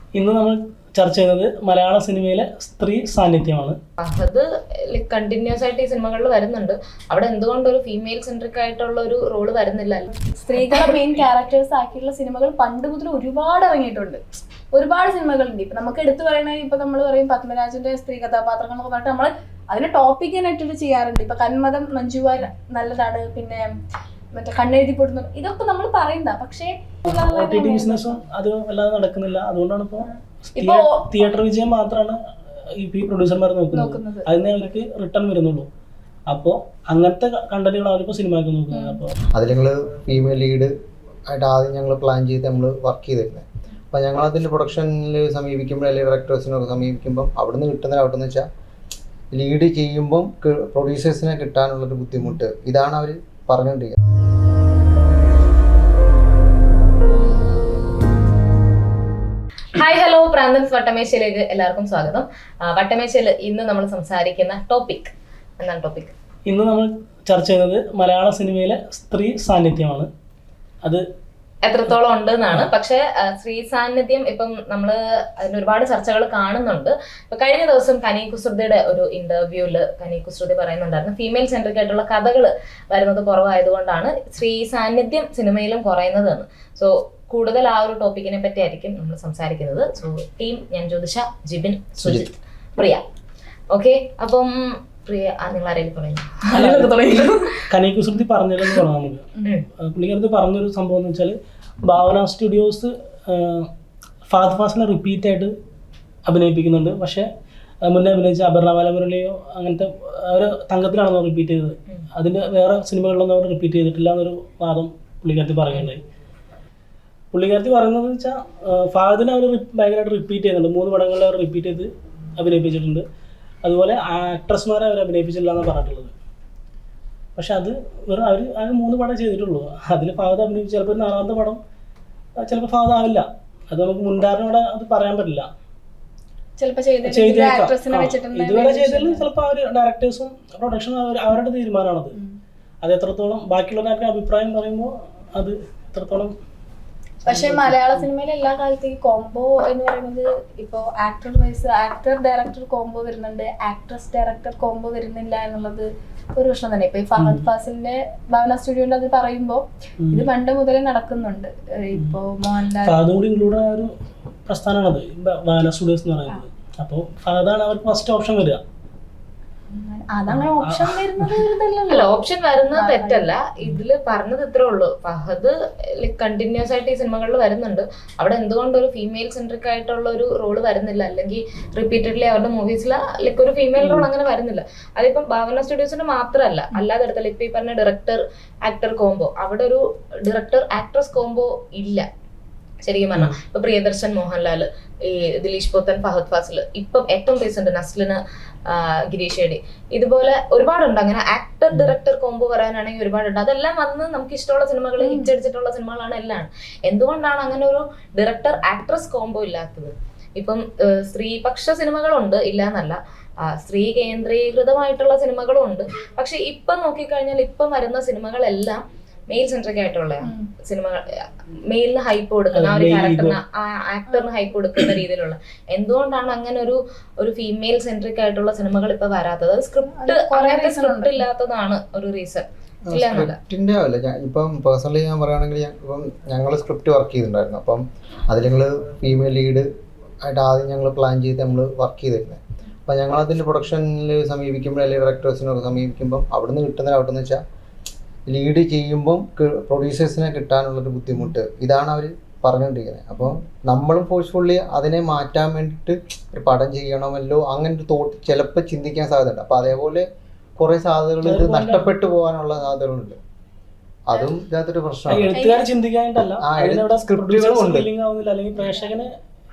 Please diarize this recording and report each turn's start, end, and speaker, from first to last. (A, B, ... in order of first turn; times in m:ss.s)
0:00.1-0:03.8 A
0:04.0-0:11.0 B
0:10.4-0:14.2 C
0:14.7-0:23.7 C
0:24.3-0:28.2 C
0:27.1-0:32.2 A
0:30.6-0:31.3 C
0:32.8-0:35.7 A
0:33.7-0:34.3 C
0:36.3-0:39.2 A
0:38.7-0:39.0 C
0:39.3-0:40.7 D
0:41.3-0:48.5 D
0:49.3-0:54.0 D
0:59.7-1:06.1 B
1:06.4-1:10.1 A
1:11.6-1:33.0 B
1:32.0-1:32.3 D
1:33.7-1:36.5 B
1:36.5-1:43.7 A
1:36.6-1:37.2 C
1:44.3-1:45.5 A
1:46.2-1:47.3 A
1:47.8-1:56.0 A
1:57.3-2:03.0 A
2:03.6-2:06.1 A
2:07.4-2:11.6 A
2:12.4-2:15.5 A
2:16.6-2:19.2 C
2:17.0-2:22.2 A
2:22.8-2:26.3 A
2:27.2-2:43.0 C
2:27.3-2:28.0 A
2:37.2-2:37.4 A
2:40.0-2:40.3 A
2:42.8-2:43.9 A
2:44.4-2:48.6 A
2:49.7-2:52.2 C
2:50.3-2:51.4 A
2:51.9-3:12.0 B
2:52.7-2:53.3 C
3:03.8-3:04.1 A
3:12.8-3:41.0 B
3:25.0-3:25.3 C
3:41.7-3:53.4 B
3:42.5-3:43.4 A
3:49.9-3:51.2 C
3:52.9-3:59.7 D
4:00.2-4:07.4 D
4:08.3-4:20.0 D
4:20.6-4:23.2 D
4:21.2-4:21.9 A
4:24.0-4:25.3 D
4:25.1-4:29.1 A
4:25.3-4:25.7 C
4:26.4-4:27.9 D